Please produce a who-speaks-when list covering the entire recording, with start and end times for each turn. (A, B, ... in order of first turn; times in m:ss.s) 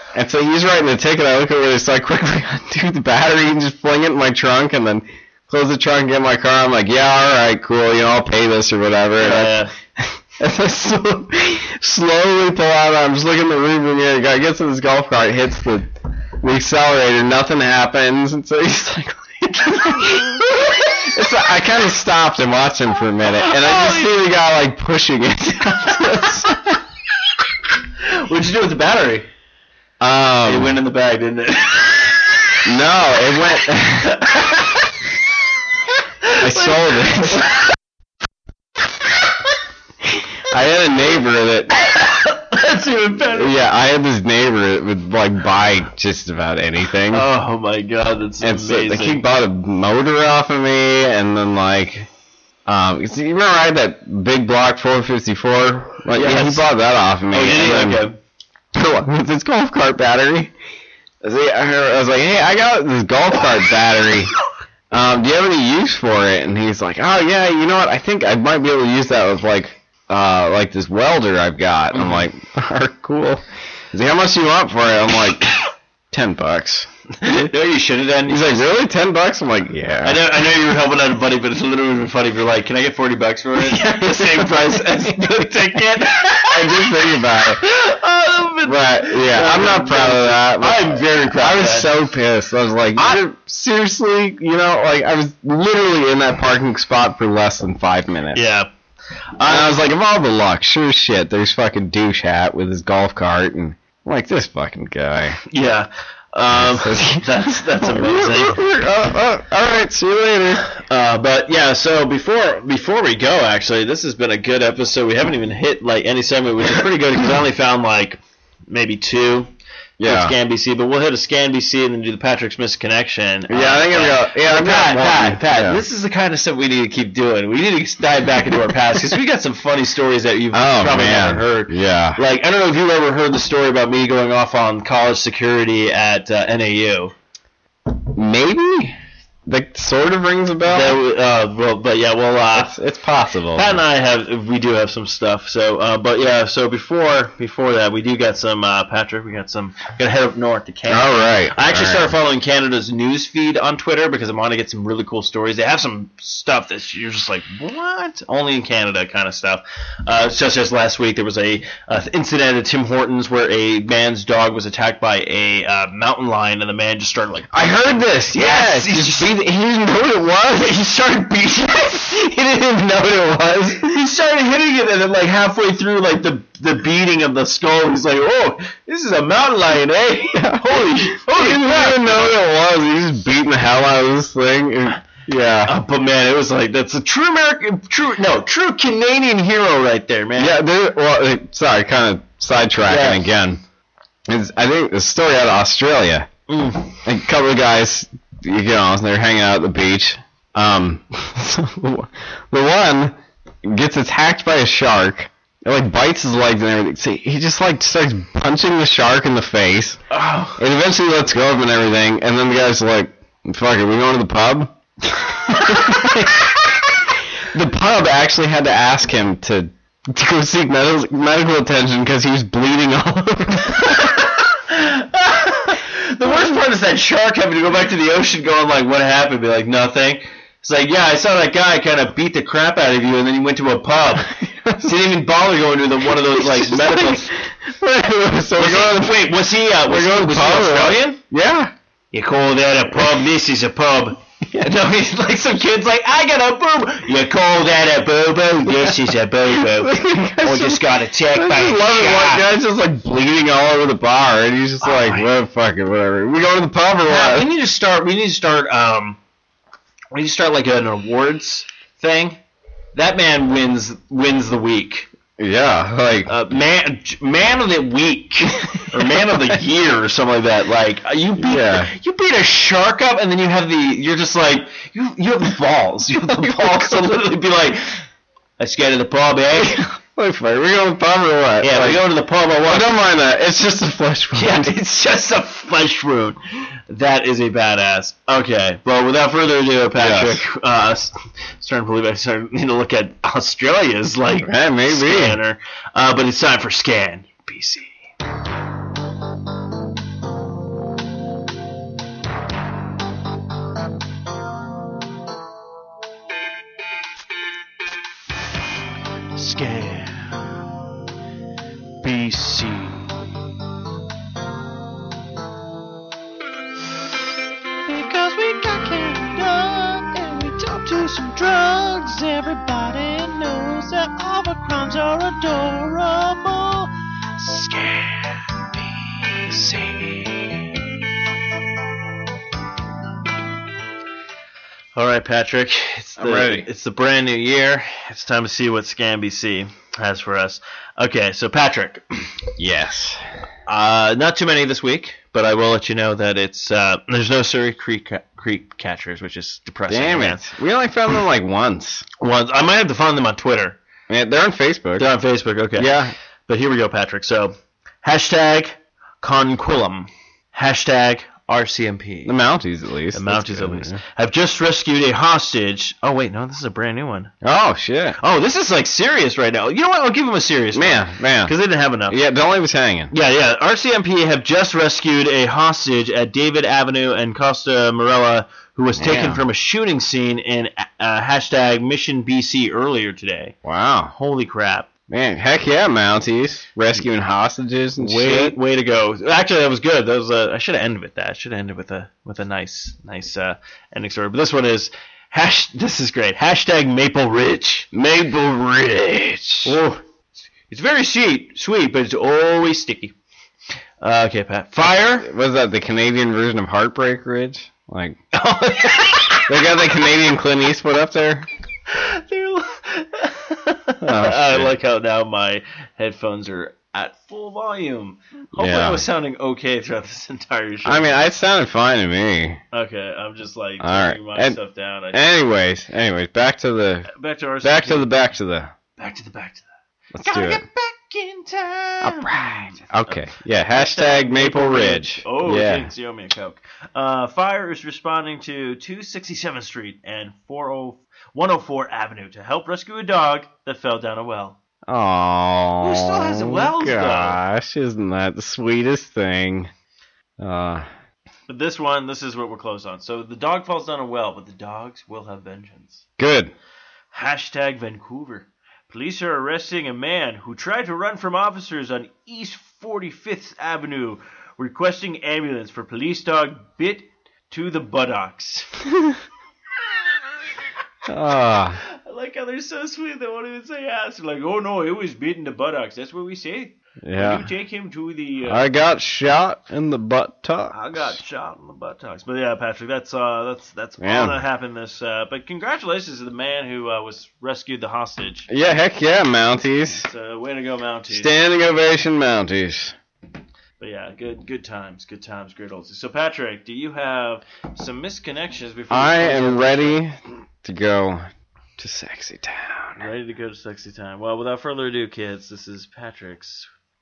0:00.1-0:26.8 A
0:09.2-0:09.7 B
0:23.3-0:24.1 B
0:28.0-0:29.3 B
0:30.0-0:30.8 A
0:30.4-0:32.5 B
0:32.6-0:34.4 A
0:34.0-0:34.8 B
0:36.2-0:37.6 B
0:36.4-0:37.6 A
0:40.5-0:41.8 A
0:41.8-0:43.6 B
0:43.4-0:47.3 A
0:47.1-0:49.2 B
0:48.4-0:52.1 A
0:52.7-0:58.0 A
0:56.1-0:56.7 B
0:57.3-0:58.2 B
0:58.7-1:00.5 A
1:01.2-1:04.3 A
1:04.9-1:15.5 A
1:11.9-1:12.3 B
1:16.1-1:17.5 A
1:17.2-1:18.7 B
1:18.3-1:20.2 A
1:20.0-1:27.0 B
1:23.6-1:25.0 A
1:26.4-1:27.6 A
1:27.6-1:31.9 B
1:28.6-1:38.5 A
1:33.0-1:33.2 B
1:38.3-1:38.7 B
1:39.4-1:39.8 B
1:39.4-1:45.4 A
1:45.5-1:48.6 B
1:46.5-1:50.7 A
1:50.8-1:59.5 B
2:00.0-2:00.4 A
2:00.0-2:17.1 B
2:03.5-2:05.8 A
2:10.5-2:12.2 A
2:18.1-2:19.0 A
2:19.5-2:21.0 A
2:20.6-2:22.8 B
2:22.5-2:23.8 A
2:23.5-2:49.3 B
2:30.9-2:32.1 A
2:47.5-2:53.9 A
2:50.6-2:51.9 B
2:53.8-3:02.4 B
3:00.3-3:05.8 A
3:05.6-3:10.6 B
3:10.4-3:13.6 A
3:12.9-3:13.3 B
3:14.3-3:16.3 A
3:16.5-3:17.0 B
3:17.0-3:30.0 A
3:30.1-3:30.6 B
3:30.6-3:34.7 A
3:35.3-3:36.6 A
3:35.7-3:36.1 B
3:37.5-3:44.2 A
3:43.8-3:57.3 B
3:54.4-3:54.9 A
3:56.1-4:01.7 A
3:58.6-4:01.2 B
4:02.1-4:12.5 B
4:08.7-4:17.5 A
4:14.8-4:15.3 B
4:17.0-4:19.2 B
4:20.1-4:22.4 B
4:22.9-4:25.1 B
4:25.4-4:26.3 A
4:26.3-4:38.0 B
4:31.4-4:31.9 A
4:36.4-4:37.0 A
4:38.6-4:39.9 B
4:40.2-4:42.0 A
4:41.6-4:42.9 B
4:42.7-4:44.7 A
4:44.4-4:58.0 B
4:50.0-4:50.4 A
4:54.4-4:55.4 A
5:09.4-5:10.6 C
5:12.0-5:13.2 C
5:17.9-5:30.8 C
5:35.0-5:42.3 B
5:36.2-5:36.7 A
5:42.6-5:43.3 A
5:43.7-5:50.5 B
5:49.9-5:52.0 A
5:52.2-5:53.8 B
5:54.1-5:55.1 A
5:55.0-6:02.4 B
5:55.8-5:56.1 A
6:02.2-6:04.0 A
6:03.1-6:07.3 B
6:07.4-6:08.2 A
6:08.2-6:12.2 B
6:10.7-6:11.5 A
6:12.1-6:13.1 A
6:13.1-6:23.6 B
6:19.0-6:19.4 A
6:23.6-6:24.1 A
6:24.1-6:24.9 B
6:25.1-6:28.6 A
6:28.0-6:37.9 B
6:37.9-6:39.8 A
6:39.6-6:40.0 B
6:40.7-6:43.2 B
6:44.0-6:45.3 B
6:45.2-6:48.2 A
6:48.3-6:49.6 B
6:49.5-6:51.5 A
6:51.9-7:01.1 B
6:54.0-6:54.7 A
6:58.6-6:59.0 A
7:00.8-7:02.6 A
7:02.7-7:05.3 B
7:03.8-7:04.6 A
7:05.1-7:07.1 A
7:07.1-7:08.1 B
7:07.6-7:08.7 A
7:09.0-7:09.7 B
7:10.1-7:10.6 A
7:10.2-7:24.6 B
7:12.0-7:15.9 A
7:24.9-7:29.7 A
7:25.8-7:27.4 B
7:30.4-7:30.9 A
7:31.5-7:36.0 B
7:36.2-7:36.5 A
7:37.1-7:48.8 B
7:51.1-7:51.8 A
7:51.8-7:58.7 B
7:57.0-7:57.5 A
7:58.4-8:01.2 A
8:00.7-8:08.5 B
8:04.0-8:04.4 A
8:08.5-8:10.1 A
8:10.0-8:11.3 B
8:11.1-8:13.0 A
8:13.8-8:20.0 B
8:18.9-8:21.3 A
8:21.8-8:23.1 A
8:23.0-8:26.7 B